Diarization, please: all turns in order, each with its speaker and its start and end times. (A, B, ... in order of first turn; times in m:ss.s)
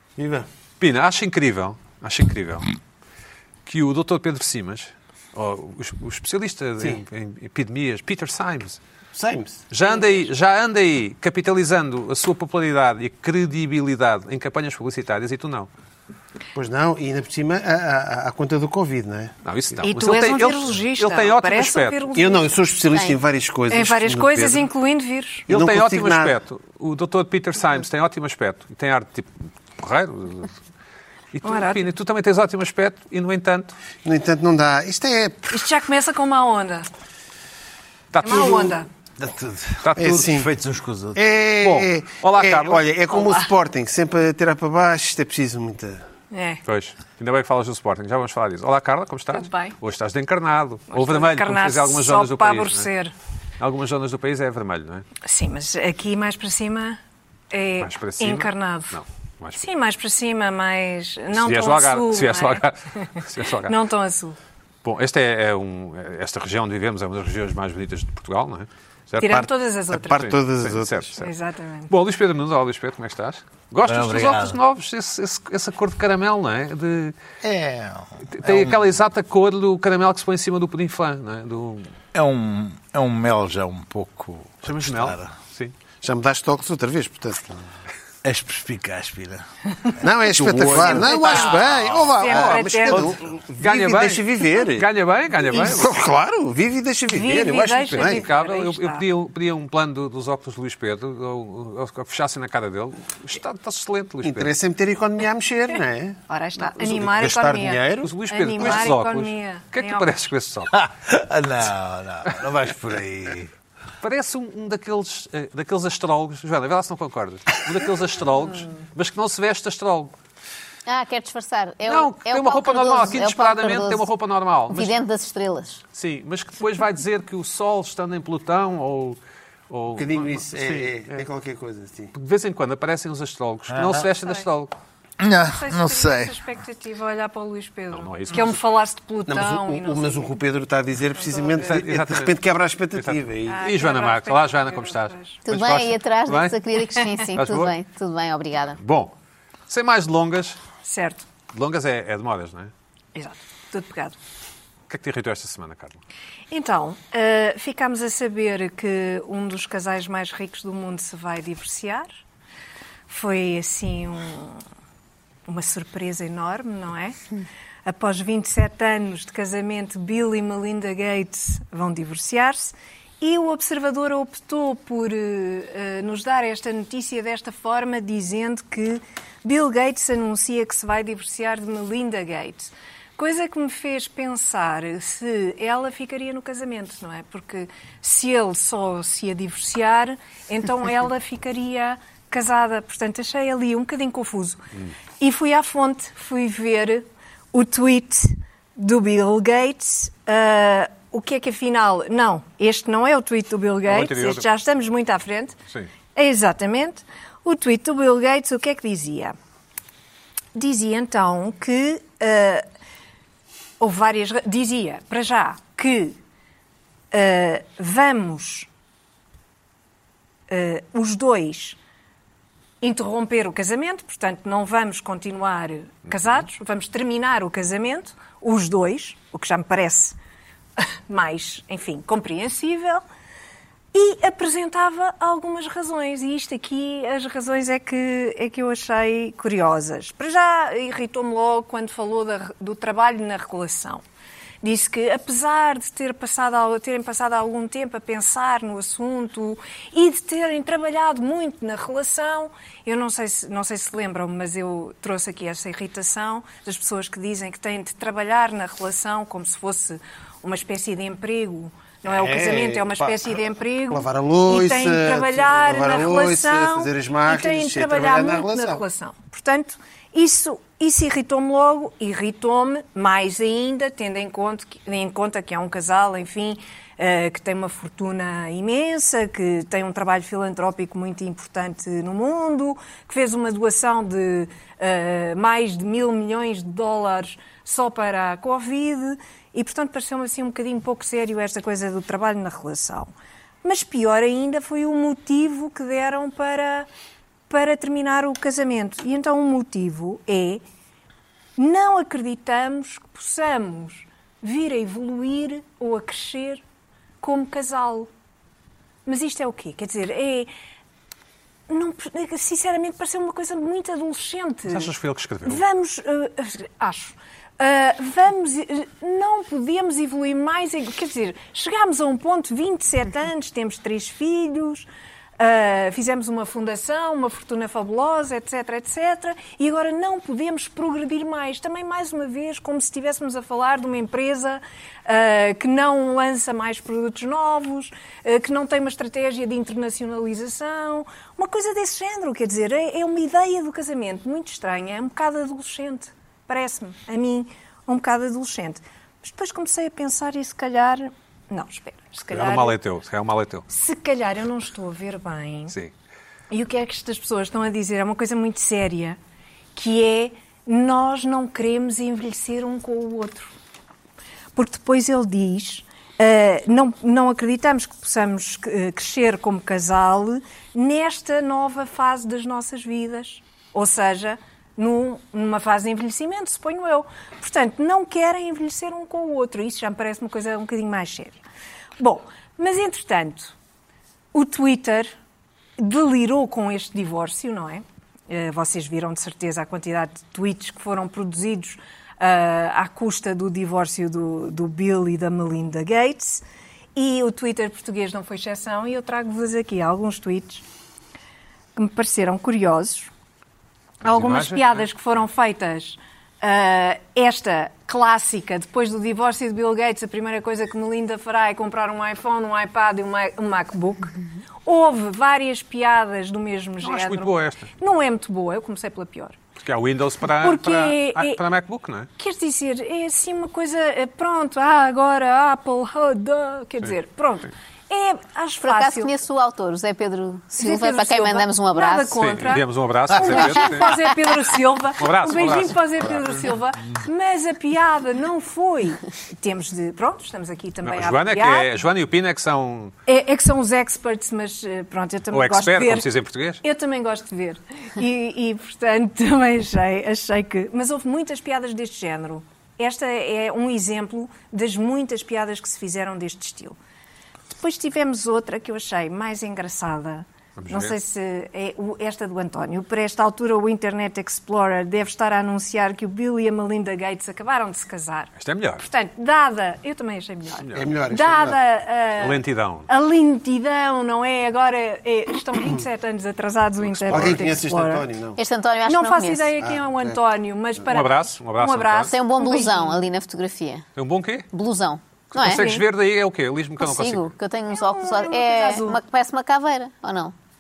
0:00.2-0:00.5 A
0:00.8-0:02.7 B
0:03.7-0:08.8 B
0:09.1-0:09.7 A
0:09.7-0:15.7 B
0:16.6-0:19.3 A
0:19.4-0:22.0 B
0:19.8-0:22.6 C
0:22.1-0:24.7 A
0:23.7-0:25.5 C
0:25.5-0:30.5 B
0:25.5-0:26.3 A
0:31.3-0:33.8 B
0:31.4-0:31.8 C
0:34.0-0:35.6 A
0:35.5-0:36.9 C
0:38.1-0:38.7 B
0:38.2-0:38.9 C
0:39.2-0:41.2 D
0:39.8-0:40.2 B
0:40.0-0:40.5 A
0:41.2-0:46.0 A
0:41.6-0:42.8 B
0:43.1-0:43.5 C
0:46.3-0:46.6 C
0:46.6-0:52.9 B
0:49.3-0:49.8 C
0:50.9-0:53.1 C
0:53.6-0:55.1 B
0:55.2-0:57.0 C
0:57.5-0:59.0 C
0:57.8-0:59.6 B
0:59.6-1:02.6 C
1:01.3-1:03.8 B
1:03.6-1:04.4 C
1:04.8-1:09.5 B
1:09.2-1:10.3 C
1:09.9-1:11.1 A
1:10.1-1:11.3 B
1:11.2-1:11.9 C
1:11.9-1:17.2 B
1:13.8-1:14.6 D
1:17.4-1:18.8 D
1:18.3-1:21.9 B
1:22.1-1:25.3 D
1:24.6-1:25.8 B
1:26.0-1:27.6 A
1:28.2-1:29.4 D
1:30.0-1:34.9 A
1:30.3-1:33.2 D
1:30.9-1:31.6 C
1:32.2-1:33.0 C
1:33.6-1:35.9 B
1:35.5-1:38.3 A
1:37.1-1:39.1 C
1:37.8-1:44.5 B
1:44.2-1:46.2 A
1:46.3-1:50.2 C
1:46.7-1:48.9 A
1:48.0-1:50.8 B
1:50.7-1:53.5 D
1:54.0-2:00.1 B
2:00.9-2:04.1 E
2:01.9-2:04.9 B
2:04.7-2:05.8 E
2:05.9-2:09.2 B
2:09.7-2:11.3 B
2:10.0-2:12.1 A
2:12.1-2:14.8 B
2:13.7-2:14.0 D
2:15.2-2:16.4 D
2:15.5-2:20.4 C
2:17.9-2:18.6 B
2:19.3-2:23.6 A
2:21.1-2:21.8 C
2:21.6-2:22.4 B
2:22.9-2:26.6 B
2:23.5-2:25.4 C
2:25.4-2:28.8 E
2:27.4-2:27.7 B
2:28.8-2:29.1 B
2:29.7-2:30.6 B
2:30.8-2:31.3 C
2:31.5-2:32.7 B
2:33.2-2:34.2 C
2:34.9-2:36.0 B
2:36.5-2:42.2 C
2:43.1-2:44.6 C
2:45.5-2:47.2 C
2:47.8-3:14.7 C
3:15.2-3:25.6 C
3:23.9-3:24.5 B
3:26.2-3:29.4 C
3:30.6-3:32.6 C
3:33.8-3:36.2 C
3:37.1-3:38.7 C
3:40.5-3:41.8 C
3:42.8-3:50.2 C
3:50.8-3:53.0 C
3:53.9-4:04.0 C
4:04.6-4:53.1 C
4:22.1-4:23.3 A
4:23.9-4:28.8 A
4:53.6-4:56.9 C
4:57.5-5:00.6 C
5:01.6-5:06.6 C
5:07.2-5:08.1 C
5:09.1-5:10.5 C
5:11.7-5:14.9 C
5:14.7-5:15.6 B
5:15.4-5:24.9 C
5:25.4-5:52.8 C
5:52.3-5:53.7 B
5:53.7-5:55.8 C
5:56.5-5:59.2 C
5:59.8-6:03.5 C
6:04.6-6:21.4 C
6:22.0-6:23.5 C
6:24.3-6:25.1 C
6:25.8-6:36.4 C
6:37.0-6:40.6 C
6:41.8-6:43.1 C
6:44.0-6:59.4 C
6:44.0-6:44.9 B
6:56.8-6:57.7 B
6:59.6-7:02.1 B
7:00.4-7:01.4 C
7:02.2-7:09.1 C
7:08.6-7:12.4 E
7:10.6-7:21.7 C
7:12.2-7:14.1 B
7:13.5-7:14.0 E
7:15.0-7:16.4 B
7:20.8-7:22.9 B
7:23.1-7:26.1 C
7:25.3-7:26.6 B
7:26.6-7:36.8 C
7:37.5-7:58.1 C
7:40.6-7:41.0 B
7:48.4-7:48.9 B
7:50.6-7:50.9 B
7:50.7-7:51.6 A
7:52.2-7:52.9 B
7:56.8-7:57.6 B
7:57.1-7:58.4 A
7:58.4-7:59.5 E
7:58.9-8:03.0 C
7:59.6-8:00.2 A
8:00.9-8:02.1 B
8:02.1-8:03.9 E
8:04.0-8:04.5 B
8:04.5-8:05.8 E
8:05.3-8:07.3 B
8:05.5-8:05.8 C
8:06.8-8:10.3 E
8:07.7-8:09.0 C